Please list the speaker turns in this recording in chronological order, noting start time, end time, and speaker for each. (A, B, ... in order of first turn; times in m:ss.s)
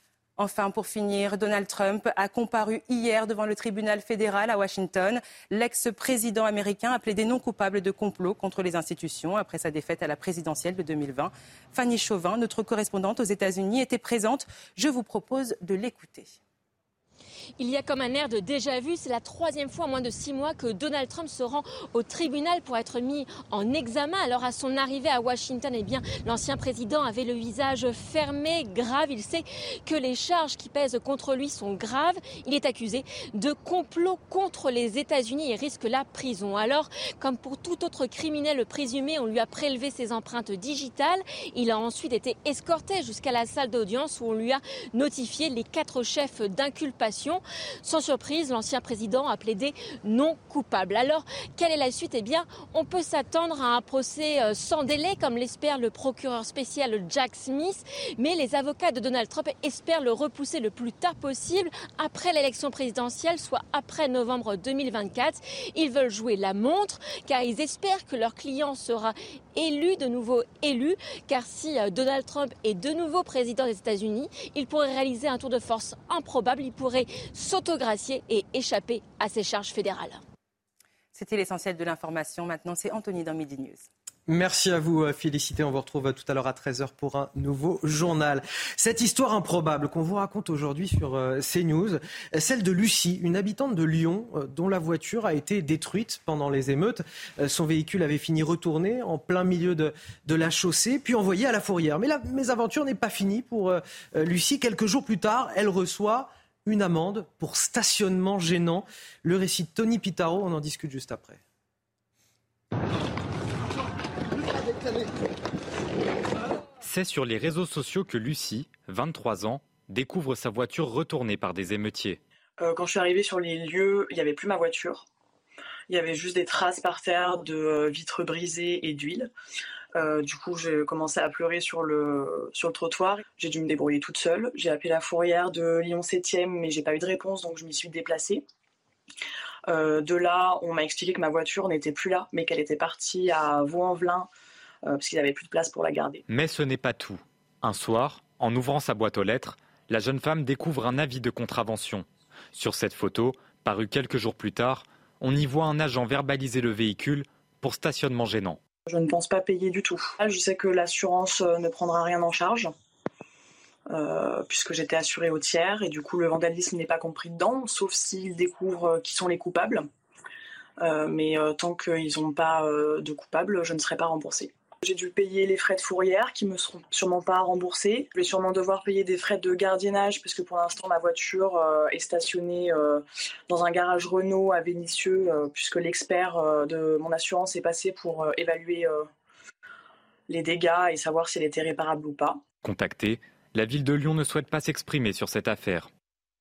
0:00.4-0:16.4 A
0:17.6-1:20.2 B
1:21.1-1:23.9 A
1:24.3-1:51.4 C
1:56.8-2:02.2 D
2:02.6-2:05.0 E
2:05.9-2:09.3 E
2:10.0-2:18.4 E
2:19.7-2:24.3 E
2:24.8-2:26.2 E
2:26.3-2:38.6 D
2:38.9-2:42.7 E
2:43.9-2:49.9 E
2:50.8-3:09.1 E
3:10.3-3:12.4 E
3:12.6-3:15.9 D